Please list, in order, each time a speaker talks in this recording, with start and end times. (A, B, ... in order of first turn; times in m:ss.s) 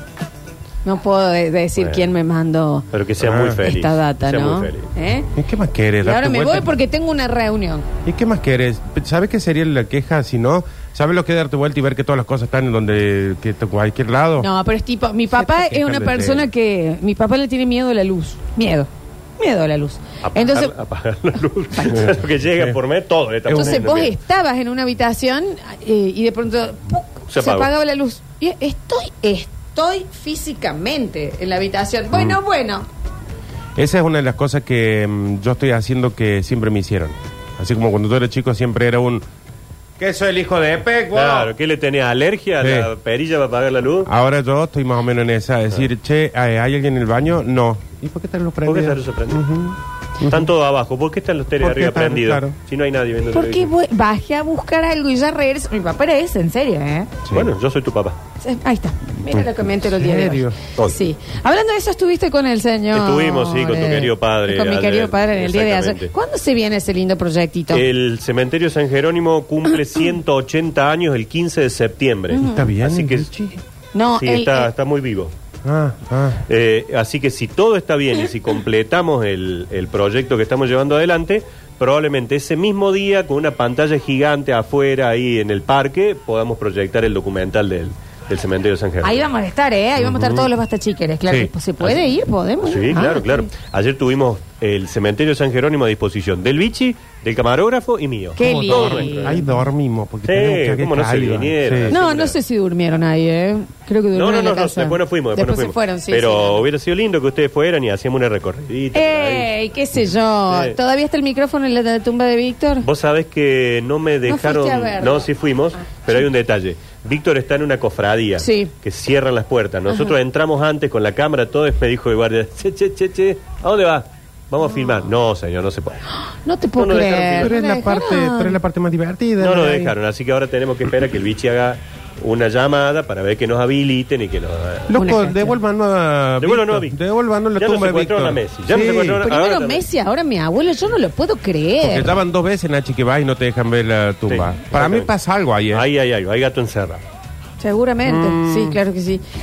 0:00.8-0:02.9 A
0:01.8-0:02.1 B
0:02.9-0:04.9 B
0:03.2-0:03.6 C
0:03.6-0:05.3 A
0:05.4-0:06.8 C
0:06.0-0:07.9 A
0:08.0-0:14.5 C
0:14.4-0:20.7 A
0:15.3-0:16.5 C
0:20.2-0:24.2 B
0:21.8-0:22.1 A
0:21.9-0:22.8 C
0:23.5-0:23.9 C
0:23.5-0:32.9 A
0:27.3-0:27.7 B
0:33.8-0:39.2 C
0:40.0-0:41.5 C
0:41.1-0:44.1 B
0:42.6-0:42.9 C
0:44.1-0:50.5 C
0:48.6-0:49.4 B
0:50.2-0:53.7 B
0:51.6-0:52.6 C
0:53.3-0:57.1 A
0:57.2-0:57.5 C
0:57.3-0:58.2 B
0:58.4-1:07.8 A
0:59.3-1:00.6 C
1:02.9-1:06.1 B
1:07.7-1:13.3 B
1:12.3-1:12.6 A
1:12.3-1:13.6 C
1:13.9-1:14.7 A
1:14.2-1:15.3 B
1:15.6-1:16.4 C
1:16.5-1:29.2 B
1:29.0-1:33.5 A
1:30.0-1:30.5 C
1:32.6-1:39.4 B
1:38.4-1:39.4 A
1:38.4-1:42.0 C
1:40.2-1:42.4 B
1:41.9-1:46.6 A
1:44.1-1:49.5 B
1:48.9-1:52.9 A
1:50.5-1:50.8 B
1:52.8-2:06.1 B
1:54.3-1:55.3 A
1:58.4-1:58.7 A
2:04.7-2:05.0 A
2:06.1-2:08.6 A
2:06.8-2:07.6 B
2:07.4-2:09.9 C
2:09.4-2:14.9 B
2:14.9-2:19.2 C
2:15.0-2:15.6 A
2:16.4-2:17.0 B
2:17.6-2:19.8 B
2:19.2-2:22.1 A
2:21.8-2:25.9 C
2:24.3-2:25.1 B
2:25.7-2:27.0 B
2:27.6-2:29.2 A
2:28.1-2:28.7 C